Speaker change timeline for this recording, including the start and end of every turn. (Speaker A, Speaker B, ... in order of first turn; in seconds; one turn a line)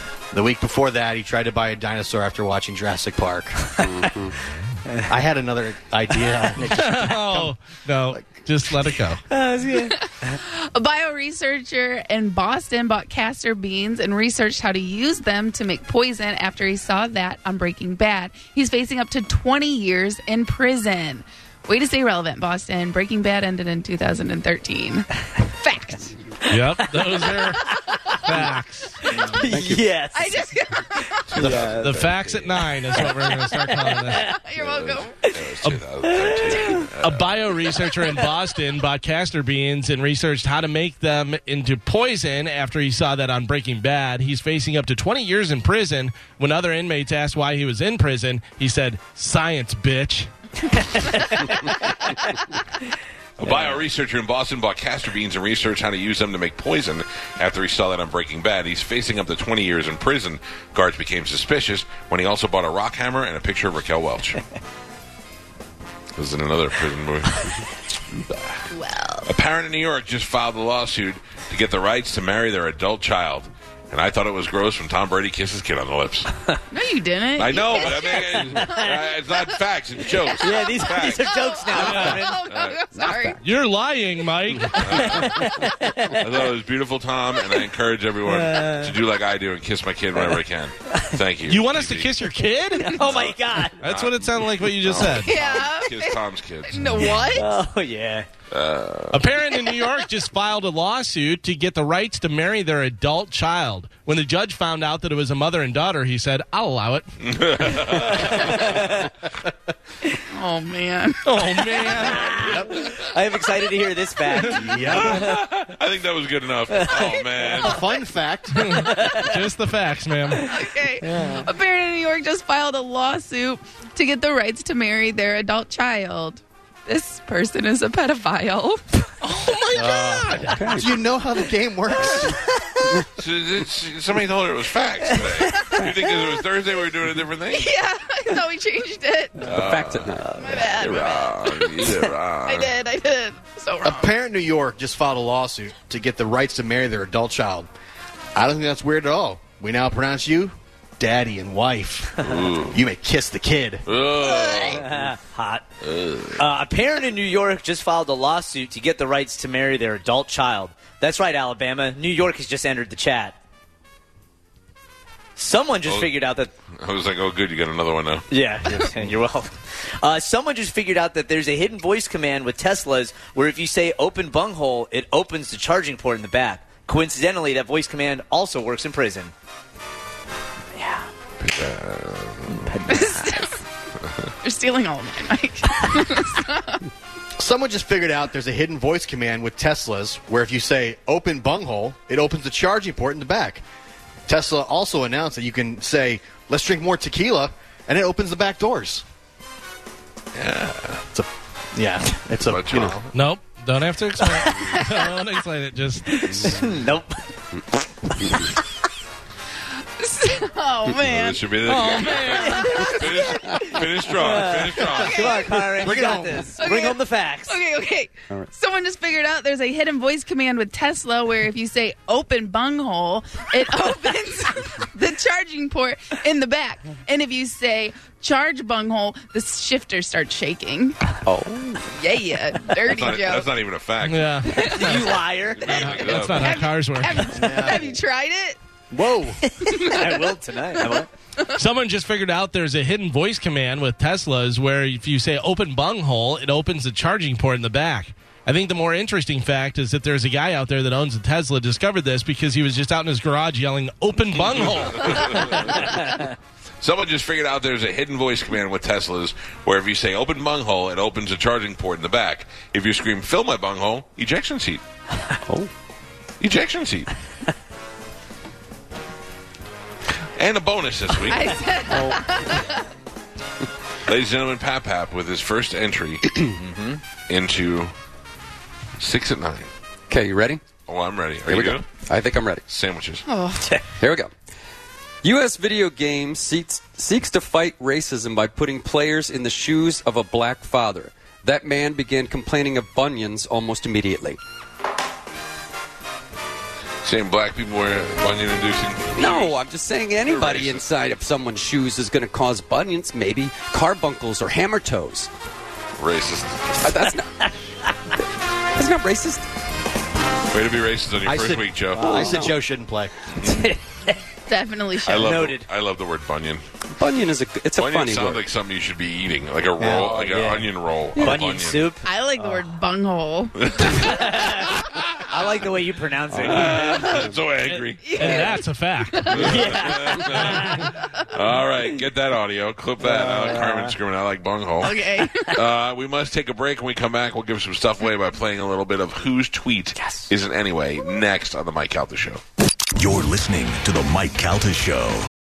Speaker A: 0.3-3.9
Speaker B: 3.8-4.3
Speaker A: 5.0-7.5
Speaker C: 6.7-9.2
Speaker A: 8.1-8.4
Speaker B: 9.3-9.9
Speaker D: 9.8-26.1
Speaker C: 26.5-29.2
Speaker B: 26.9-28.4
Speaker B: 29.1-30.5
Speaker E: 29.5-29.9
Speaker D: 30.1-31.5
Speaker F: 31.3-32.6
Speaker B: 31.3-32.1
Speaker C: 31.7-34.3
Speaker B: 32.9-34.3
Speaker D: 34.2-35.2
Speaker F: 34.6-37.4
Speaker B: 36.0-36.8
Speaker D: 36.5-36.9
Speaker C: 36.8-50.3
Speaker B: 51.4-52.2
Speaker F: 53.4-64.4
Speaker B: 53.5-53.8
Speaker F: 66.2-67.4
Speaker F: 68.3-68.6
Speaker D: 68.7-69.3
Speaker F: 69.3-76.3
Speaker D: 76.7-78.7
Speaker F: 77.4-82.9
Speaker B: 77.8-79.0
Speaker B: 80.4-82.4
Speaker D: 81.0-83.4
Speaker E: 83.0-83.3
Speaker C: 83.4-85.3
Speaker F: 84.8-85.3
Speaker B: 85.0-86.2
Speaker F: 86.2-92.1
Speaker B: 88.3-89.0
Speaker C: 91.5-93.0
Speaker B: 92.8-93.8
Speaker F: 93.0-96.8
Speaker C: 93.8-95.3
Speaker D: 95.1-97.5
Speaker B: 97.2-98.3
Speaker F: 98.5-99.3
Speaker C: 99.1-107.1
Speaker F: 107.2-108.8
Speaker B: 108.2-109.1
Speaker D: 110.3-111.3
Speaker C: 111.2-112.7
Speaker B: 112.0-115.5
Speaker C: 114.3-114.7
Speaker A: 114.5-115.2
Speaker F: 115.0-117.8
Speaker B: 116.7-117.8
Speaker A: 117.6-118.6
Speaker C: 118.5-120.5
Speaker B: 118.8-119.3
Speaker D: 120.5-130.6
Speaker B: 121.0-121.4
Speaker A: 129.7-133.0
Speaker E: 130.5-130.9
Speaker F: 133.1-137.7
Speaker D: 135.5-135.9
Speaker D: 137.5-139.6
Speaker F: 139.4-142.7
Speaker E: 139.5-140.3
Speaker D: 140.2-144.1
Speaker A: 143.8-147.7
Speaker A: 148.3-153.8
Speaker F: 152.2-152.8
Speaker F: 153.8-155.1
Speaker B: 154.2-155.7
Speaker F: 155.8-156.4
Speaker B: 156.4-163.4
Speaker B: 165.4-166.5
Speaker F: 165.8-166.2
Speaker F: 166.8-168.3
Speaker B: 168.3-179.3
Speaker B: 180.8-181.1
Speaker F: 181.4-182.8
Speaker B: 182.7-183.5
Speaker D: 182.9-183.6
Speaker D: 184.4-186.8
Speaker A: 187.4-193.6
Speaker A: 194.3-199.0
Speaker F: 200.3-201.0
Speaker A: 201.1-203.1
Speaker F: 202.4-203.1
Speaker C: 203.1-206.5
Speaker B: 204.3-204.7
Speaker B: 206.1-207.2
Speaker D: 210.0-213.7
Speaker F: 211.0-215.2
Speaker C: 211.7-212.8
Speaker B: 212.4-217.6
Speaker D: 214.9-215.7
Speaker A: 215.1-216.5
Speaker D: 216.6-231.0
Speaker E: 231.3-231.8
Speaker D: 231.9-233.5
Speaker F: 232.8-234.7
Speaker C: 234.0-235.2
Speaker D: 234.5-234.8
Speaker B: 234.7-235.9
Speaker F: 235.5-236.7
Speaker C: 235.7-237.4
Speaker D: 235.9-238.6
Speaker A: 237.3-237.9
Speaker A: 238.9-239.4
Speaker D: 239.5-240.1
Speaker B: 239.7-241.1
Speaker C: 241.6-255.4
Speaker F: 254.4-256.0
Speaker F: 256.8-264.8
Speaker E: 265.5-265.7
Speaker F: 266.4-267.1
Speaker F: 270.4-271.5
Speaker D: 271.3-272.8
Speaker F: 274.1-276.4
Speaker B: 276.6-277.0
Speaker F: 277.3-277.9
Speaker F: 279.0-279.7
Speaker E: 280.1-280.6
Speaker F: 280.9-282.0
Speaker E: 281.5-282.6
Speaker F: 282.7-283.2
Speaker D: 283.3-283.7
Speaker E: 284.0-284.3
Speaker E: 285.2-294.4
Speaker F: 297.0-299.6
Speaker E: 299.1-305.3
Speaker F: 300.2-300.9
Speaker F: 306.0-306.9
Speaker E: 306.8-307.3
Speaker B: 306.9-307.5
Speaker E: 308.7-309.5
Speaker F: 310.5-312.2
Speaker A: 311.2-313.1
Speaker E: 312.0-312.5
Speaker B: 313.4-314.2
Speaker D: 314.5-315.3
Speaker F: 315.1-316.6
Speaker B: 315.1-315.7
Speaker E: 316.9-318.4
Speaker F: 317.7-321.9
Speaker A: 319.8-320.2
Speaker B: 320.2-322.6
Speaker D: 322.0-323.6
Speaker F: 323.6-324.2
Speaker B: 323.9-327.1
Speaker F: 324.8-325.3
Speaker F: 326.3-328.2
Speaker D: 328.0-329.6
Speaker C: 328.2-329.3
Speaker B: 328.2-328.6
Speaker F: 329.2-330.7
Speaker B: 329.3-330.9
Speaker F: 331.3-335.0
Speaker B: 333.0-333.9
Speaker D: 334.8-335.6
Speaker F: 335.5-342.4
Speaker B: 340.0-340.3
Speaker G: 343.0-345.3